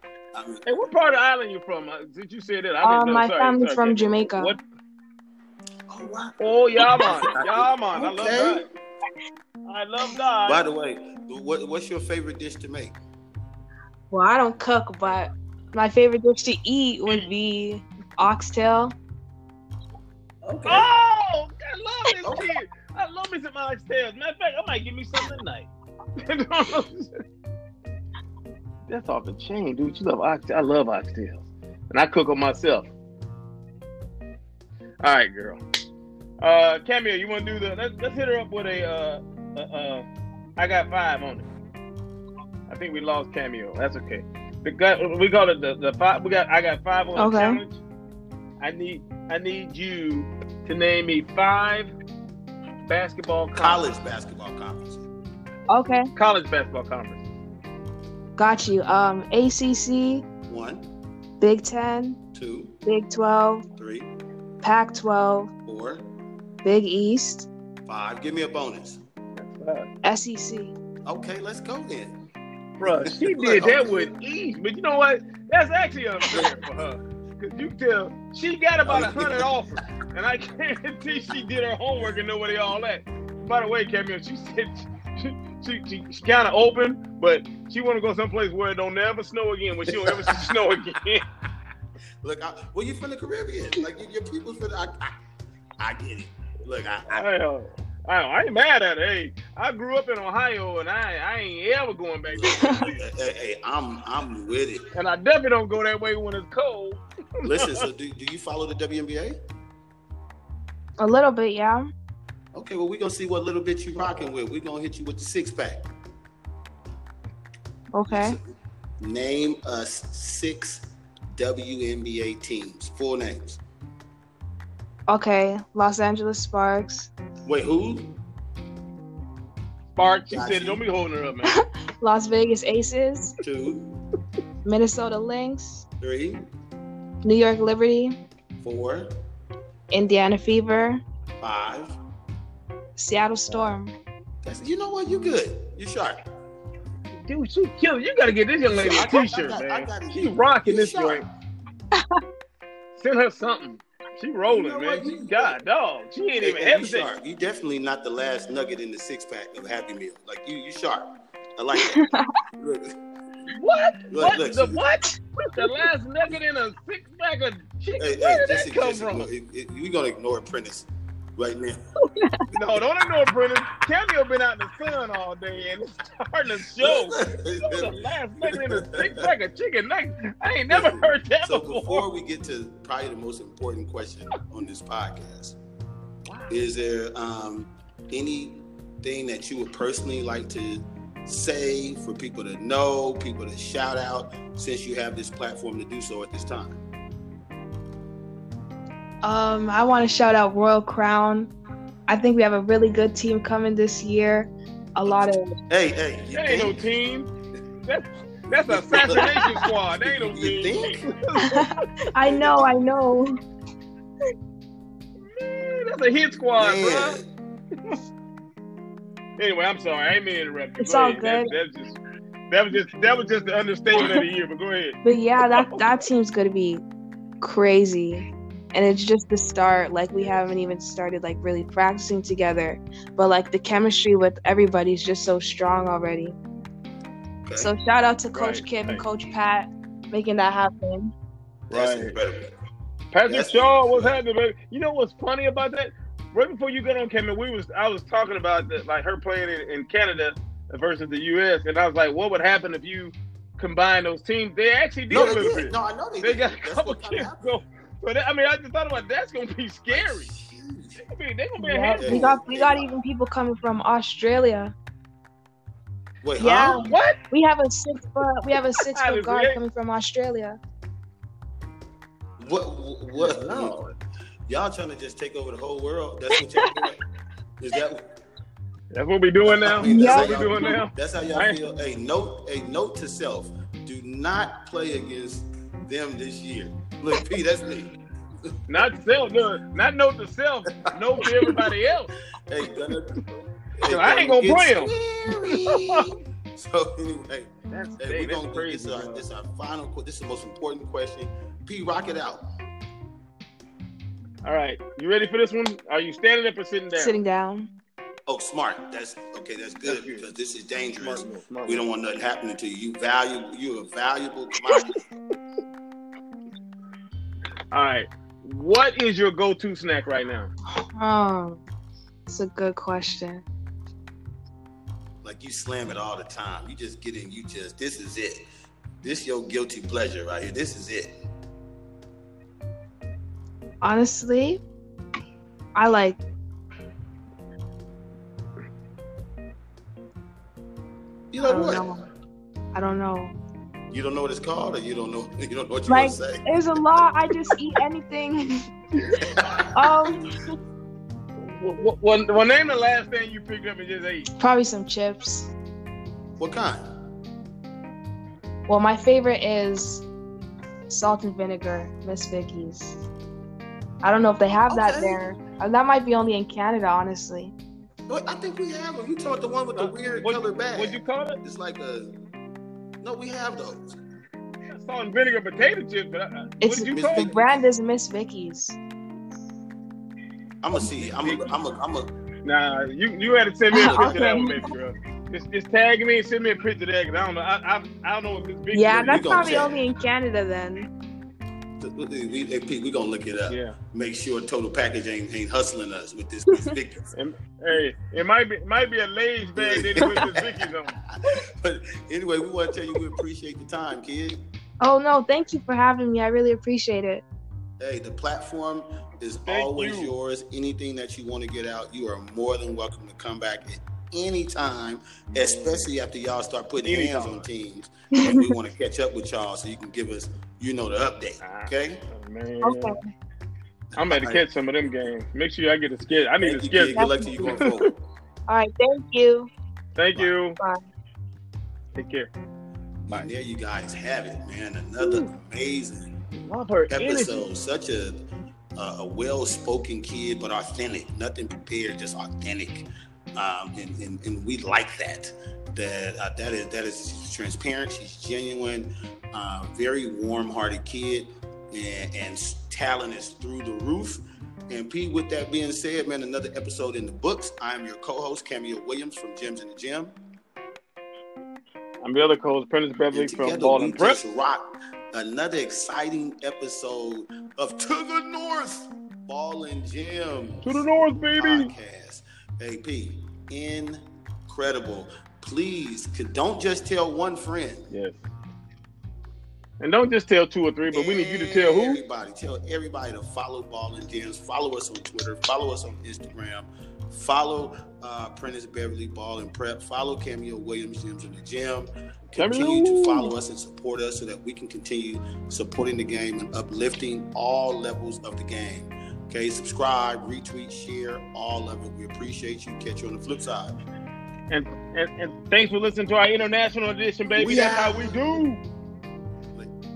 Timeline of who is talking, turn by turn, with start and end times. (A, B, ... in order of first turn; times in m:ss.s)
0:00.4-0:00.6 A
0:00.7-0:04.6 B
0:02.8-0:04.6 C
0:05.9-0:08.7 A
0:06.4-0:08.7 B
0:09.7-0:10.6 B
0:10.4-0:13.0 A
0:14.1-0:19.0 C
0:20.4-0:20.9 A
0:20.7-0:27.1 B
0:22.2-0:22.5 A
0:28.9-0:32.9 B
0:35.0-0:35.6 B
0:36.4-0:40.1 B
0:40.6-0:41.5 B
0:42.7-0:47.8 B
0:47.2-0:47.6 C
0:48.6-0:51.9 B
0:52.8-0:53.9 B
0:53.6-0:55.0 A
0:55.7-0:56.1 C
0:56.2-0:57.2 B
0:58.4-1:00.2 C
1:00.5-1:00.9 A
1:01.4-1:02.2 C
1:02.3-1:02.8 A
1:02.8-1:03.7 C
1:03.8-1:04.1 A
1:04.6-1:05.5 C
1:05.7-1:06.0 A
1:06.6-1:07.5 C
1:07.9-1:09.0 A
1:09.4-1:09.9 B
1:10.0-1:10.8 C
1:11.1-1:12.2 A
1:12.8-1:31.2 B
1:12.8-1:14.1 A
1:16.2-1:16.6 A
1:18.8-1:19.5 A
1:29.9-1:30.5 A
1:32.2-1:35.1 A
1:35.8-1:37.2 A
1:37.1-1:43.0 B
1:42.3-1:44.9 A
1:42.5-1:42.9 C
1:45.0-1:47.8 B
1:47.4-1:49.4 A
1:51.0-1:51.9 C
1:52.6-1:55.9 A
1:57.9-1:58.4 C
1:58.1-2:03.6 A
2:05.1-2:07.1 C
2:07.5-2:08.2 A
2:09.9-2:11.6 B
2:10.3-2:10.8 A
2:11.4-2:13.3 C
2:13.4-2:14.0 A
2:14.6-2:15.8 C
2:16.0-2:16.4 A
2:17.2-2:18.2 C
2:18.6-2:19.1 A
2:19.9-2:21.0 C
2:21.4-2:22.0 A
2:23.0-2:23.9 C
2:24.4-2:26.2 A
2:27.2-2:31.2 B
2:28.7-2:31.2 A
2:33.0-2:37.1 B
2:34.5-2:35.6 A
2:36.4-2:43.0 A
2:41.8-2:42.3 C
2:43.5-2:49.3 B
2:44.1-2:44.8 A
2:48.0-2:51.8 A
2:52.2-2:52.4 C
2:52.5-3:02.0 B
2:56.8-2:59.3 A
3:00.7-3:05.6 A
3:06.3-3:06.6 B
3:06.5-3:16.8 A
3:19.2-3:21.5 C
3:22.1-3:25.6 C
3:25.7-3:26.9 A
3:26.3-3:27.3 B
3:27.9-3:31.7 B
3:28.7-3:31.1 A
3:31.4-3:33.3 C
3:32.2-3:32.7 A
3:35.3-3:37.2 B
3:36.6-3:37.2 A
3:39.4-3:42.0 B
3:40.8-3:41.5 C
3:42.5-3:45.0 B
3:45.0-3:46.8 C
3:47.4-3:56.4 C
3:57.5-3:57.7 A
3:57.6-4:01.1 C
3:58.3-3:59.0 B
4:01.7-4:02.5 A
4:01.7-4:02.2 B
4:03.1-4:20.3 B
4:03.3-4:04.2 A
4:15.1-4:17.6 A
4:19.9-4:21.1 A
4:21.1-4:22.3 B
4:21.6-4:24.7 C
4:22.0-4:22.9 A
4:26.2-4:27.0 A
4:26.4-4:30.6 C
4:26.8-4:27.2 B
4:28.8-4:29.6 B
4:32.4-4:33.8 A
4:33.2-4:33.9 B
4:34.5-4:37.0 A
4:37.6-4:38.0 A
4:38.9-4:41.6 B
4:39.4-4:48.0 A
4:39.8-4:40.8 C
4:48.7-4:52.1 B
4:51.2-4:51.6 A
4:52.5-4:53.2 A
4:53.8-5:02.4 A
4:53.9-4:56.1 B
4:57.7-4:59.2 B
5:04.4-5:07.2 B
5:06.9-5:07.7 C
5:08.3-5:14.9 A
5:09.8-5:10.3 B
5:10.9-5:11.8 B
5:14.7-5:15.0 B
5:17.7-5:20.5 B
5:21.0-5:21.6 C
5:22.3-5:23.4 C
5:25.2-5:28.5 A
5:29.0-5:31.2 A
5:33.8-5:34.6 C
5:35.8-5:36.2 C
5:41.3-5:41.9 A
5:41.4-5:42.0 C
5:42.7-5:43.3 C
5:43.9-5:46.5 A
5:45.9-5:48.6 C
5:49.2-5:50.0 A
5:49.7-5:50.2 C
5:51.4-5:54.3 B
5:54.4-5:55.5 C
5:56.4-5:56.8 A
5:58.7-6:00.1 C
6:00.9-6:03.0 C
6:04.0-6:07.5 C
6:04.7-6:05.2 A
6:08.1-6:12.1 A
6:09.8-6:11.4 B
6:13.0-6:14.0 A
6:14.7-6:17.3 B
6:16.6-6:18.8 C
6:16.9-6:17.6 A
6:20.6-6:22.1 A
6:21.2-6:21.5 B
6:22.4-6:29.3 B
6:23.7-6:24.7 C
6:24.0-6:24.4 A
6:28.7-6:30.9 C
6:29.1-6:29.8 A
6:31.8-6:37.1 A
6:33.5-6:33.8 B
6:37.2-6:41.0 B
6:39.6-6:44.4 A
6:44.8-6:47.2 C
6:47.8-7:02.1 A
6:49.5-6:50.1 B
6:55.3-6:55.9 B
6:56.8-6:57.5 B
6:58.2-6:58.5 C
7:01.4-7:03.0 B
7:02.6-7:03.1 C
7:03.9-7:04.4 A
7:04.0-7:07.0 B
7:06.4-7:08.0 A
7:07.0-7:07.6 C
7:07.6-7:07.9 B
7:08.5-7:09.5 C
7:10.0-7:10.6 B
7:12.0-7:12.3 B
7:13.1-7:16.1 A
7:15.0-7:15.3 B
7:16.3-7:17.5 B
7:16.9-7:18.2 A
7:18.8-7:40.2 A
7:42.0-7:44.2 B
7:43.1-7:50.9 A
7:50.6-7:51.7 B
7:51.4-7:57.9 A
7:57.9-7:58.2 B
7:59.8-8:02.0 B
8:00.9-8:23.8 A
8:12.4-8:13.3 B
8:24.5-8:28.6 B
8:27.4-8:28.2 A